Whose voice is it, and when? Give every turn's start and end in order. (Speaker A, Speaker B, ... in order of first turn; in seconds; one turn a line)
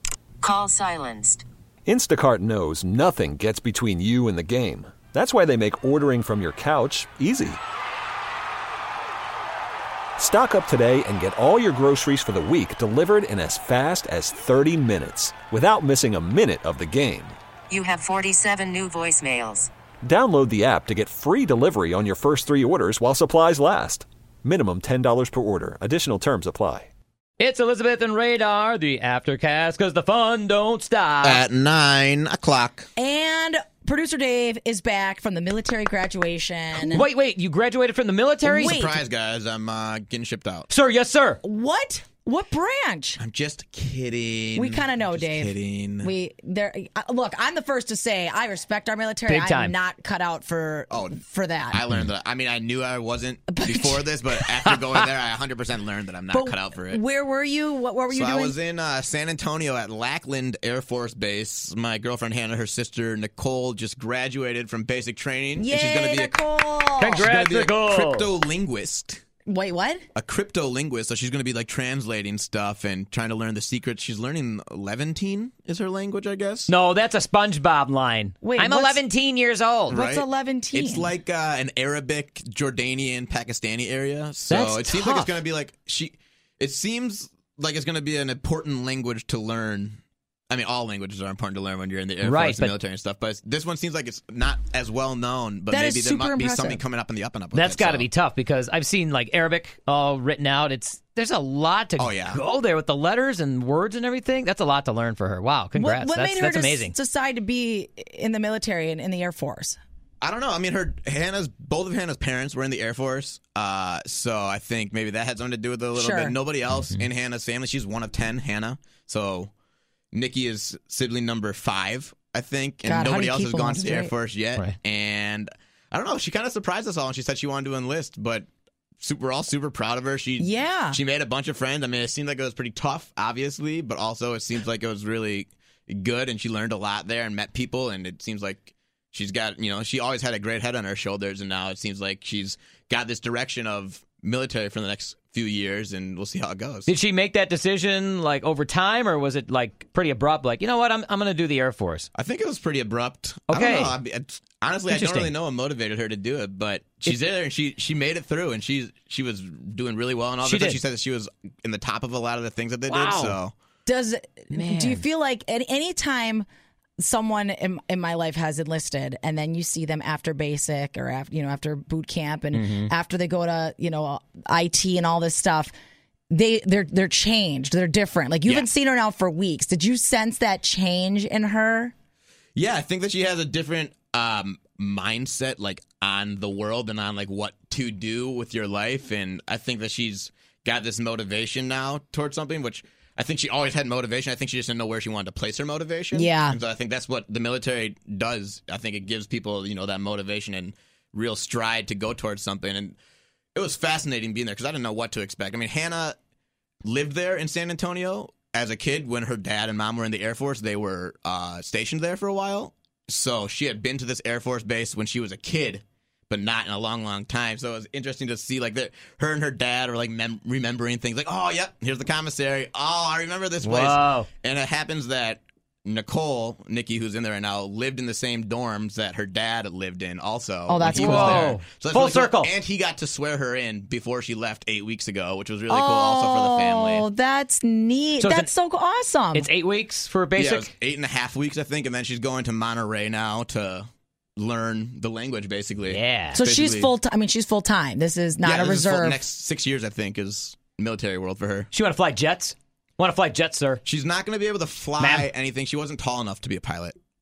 Speaker A: 0.4-1.4
Speaker B: 1.9-7.6
Speaker B: 10.2-17.4
Speaker A: 17.7-19.7
Speaker B: 20.0-26.9
Speaker C: 27.4-31.4
Speaker D: 31.2-32.9
Speaker E: 33.0-37.0
Speaker C: 36.7-38.8
Speaker D: 38.4-40.7
Speaker E: 38.5-39.0
Speaker C: 40.7-41.4
Speaker E: 41.4-43.2
Speaker D: 43.2-46.1
Speaker E: 44.5-51.8
Speaker C: 49.3-49.7
Speaker D: 50.9-51.2
Speaker D: 51.7-57.0
Speaker E: 53.5-54.0
Speaker C: 54.7-55.0
Speaker E: 56.3-58.5
Speaker D: 58.1-66.3
Speaker E: 65.6-67.2
Speaker C: 67.0-68.3
Speaker D: 67.1-69.2
Speaker E: 69.5-70.0
Speaker D: 70.1-76.7
Speaker C: 76.7-80.0
Speaker E: 78.4-79.0
Speaker D: 79.9-90.0
Speaker E: 79.9-81.1
Speaker C: 84.5-85.3
Speaker D: 90.5-98.1
Speaker C: 92.2-92.7
Speaker E: 95.7-96.8
Speaker C: 97.5-106.9
Speaker D: 102.0-102.4
Speaker E: 105.7-109.8
Speaker D: 110.2-119.5
Speaker E: 115.9-116.3
Speaker C: 116.7-117.0
Speaker D: 120.1-128.4
Speaker E: 122.8-124.1
Speaker D: 129.0-146.9
Speaker E: 130.4-131.0
Speaker C: 146.8-152.1
Speaker D: 152.1-163.5
Speaker C: 153.5-154.0
Speaker C: 154.9-155.3
Speaker C: 160.4-160.8
Speaker C: 162.9-163.3
Speaker E: 163.8-166.4
Speaker C: 164.5-165.0
Speaker E: 167.0-175.7
Speaker C: 172.5-172.9
Speaker E: 176.3-181.9
Speaker D: 182.5-202.9
Speaker E: 196.1-196.6
Speaker D: 203.6-206.2
Speaker D: 206.8-237.1
Speaker C: 223.6-224.3
Speaker E: 230.7-231.5
Speaker C: 230.9-232.5
Speaker E: 235.7-239.5
Speaker C: 238.2-238.5
Speaker C: 239.3-240.7
Speaker D: 240.3-246.9
Speaker C: 245.8-246.4
Speaker E: 246.3-249.2
Speaker D: 248.4-251.7
Speaker C: 251.7-253.8
Speaker D: 253.8-256.9
Speaker C: 255.0-255.3